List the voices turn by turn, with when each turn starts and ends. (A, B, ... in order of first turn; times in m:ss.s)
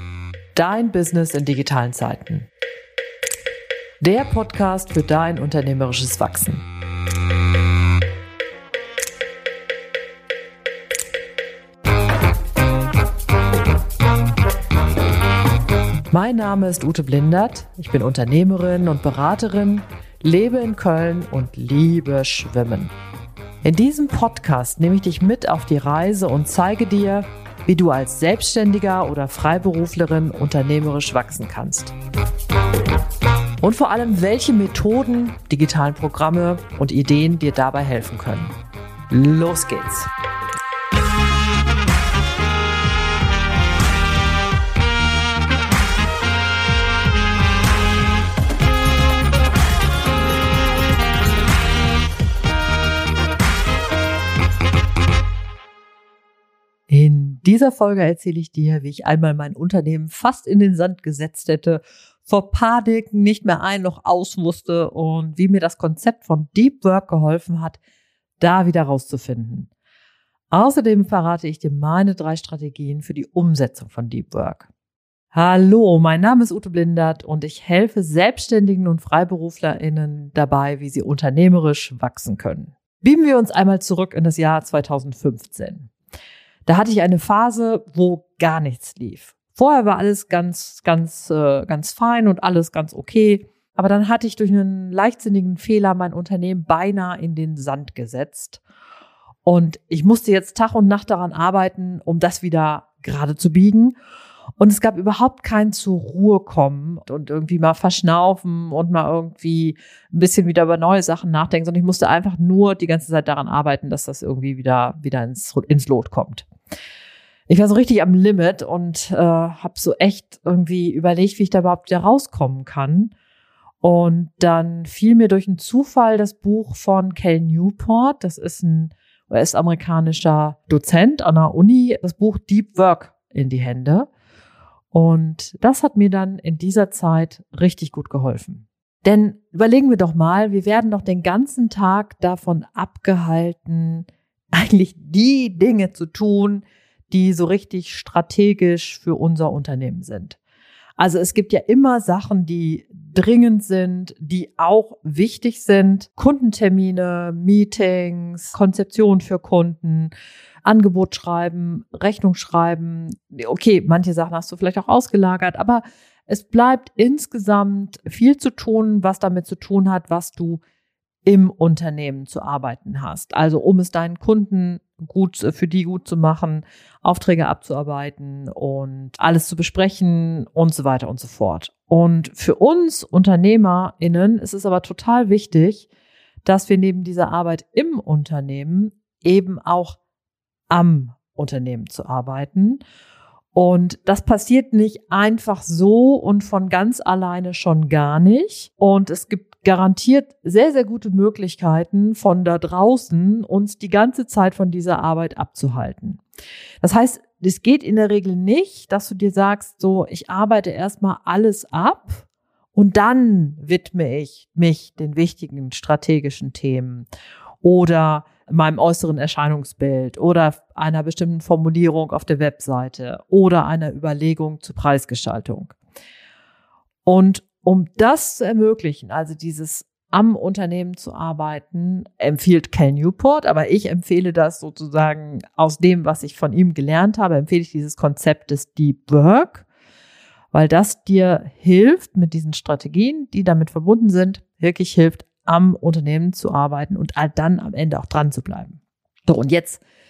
0:00.5-0:02.5 A
0:04.0-0:06.6 A
0:16.1-0:22.9 A
0:23.6-0:31.9 A
0:33.6-0:38.5 A
0:39.1-0:40.1 A
0:56.9-1:07.8 A
1:08.4-1:09.7 A
1:10.5-1:14.7 A
1:15.3-1:25.9 A
1:26.6-1:38.6 A
1:39.4-1:43.9 A
1:44.6-1:56.5 A
1:57.5-2:03.1 A
2:03.8-2:14.1 A
2:14.9-2:30.4 A
2:31.0-2:40.1 A
2:40.6-2:50.6 A
2:51.2-3:05.9 A
3:06.4-3:10.0 A
3:10.7-3:12.8 A
3:13.5-3:26.2 A
3:26.8-3:37.1 A
3:37.6-3:45.7 A
3:47.0-3:59.6 A
4:00.5-4:09.8 A